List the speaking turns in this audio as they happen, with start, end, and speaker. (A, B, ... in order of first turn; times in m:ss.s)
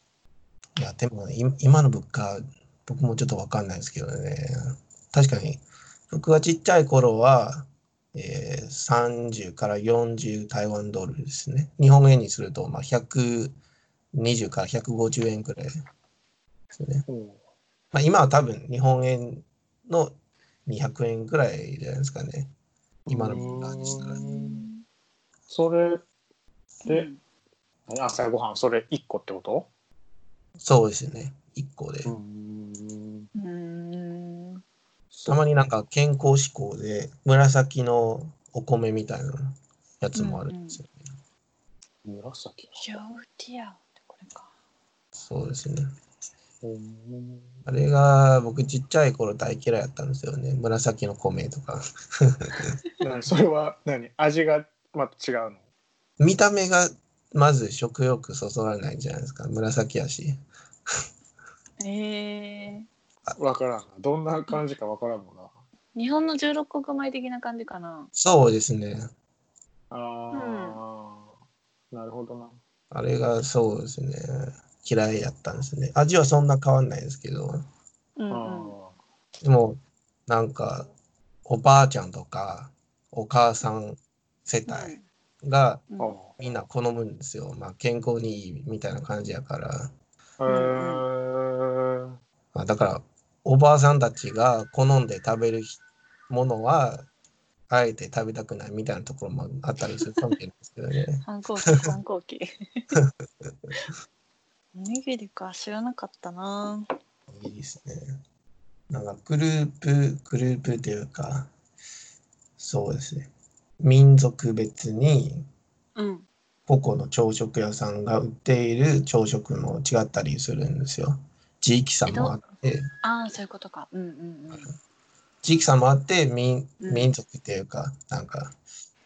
0:00.8-0:13.6 A
0:14.1-0:15.7 A
0:16.7-0:17.0 A
0:17.1-0:17.4 B
0:17.9-0:22.5 A
0:23.1-0:24.2 A
0:23.1-0:24.7 B
0:23.3-0:24.8 C
0:25.5-0:26.0 B
0:26.8-0:27.2 C
0:27.9-0:29.7 B
0:30.6-0:32.1 A
0:32.0-0:33.3 B
0:33.4-0:34.6 C
0:35.1-0:35.4 B
0:35.2-0:41.0 A
0:40.1-0:40.8 C
0:42.0-0:42.8 B
0:42.8-0:44.5 C
0:45.2-0:45.9 A
0:46.6-0:47.5 B
0:47.6-0:52.8 A
0:53.0-0:55.6 B
0:56.2-1:00.4 A
1:01.8-1:02.9 C
1:03.4-1:05.5 B
1:05.9-1:08.1 C
1:08.1-1:09.1 A
1:09.9-1:11.3 B
1:10.3-1:10.8 C
1:11.9-1:12.6 B
1:12.9-1:17.6 A
1:18.2-1:18.7 C
1:18.3-1:18.9 B
1:19.4-1:20.9 A
1:21.4-1:29.9 A
1:24.7-1:25.0 C
1:26.0-1:26.3 B
1:30.4-1:32.1 B
1:30.5-1:31.0 C
1:32.5-1:37.1 A
1:37.7-1:41.2 A
1:41.2-1:43.0 C
1:43.0-1:43.5 A
1:44.7-1:46.9 C
1:47.3-1:48.2 A
1:48.9-1:51.5 A
1:52.6-1:53.3 A
1:53.8-1:55.4 A
1:56.0-1:56.3 C
1:56.7-2:02.9 A
2:02.1-2:02.4 C
2:03.0-2:04.7 C
2:05.4-2:08.5 A
2:06.8-2:07.1 C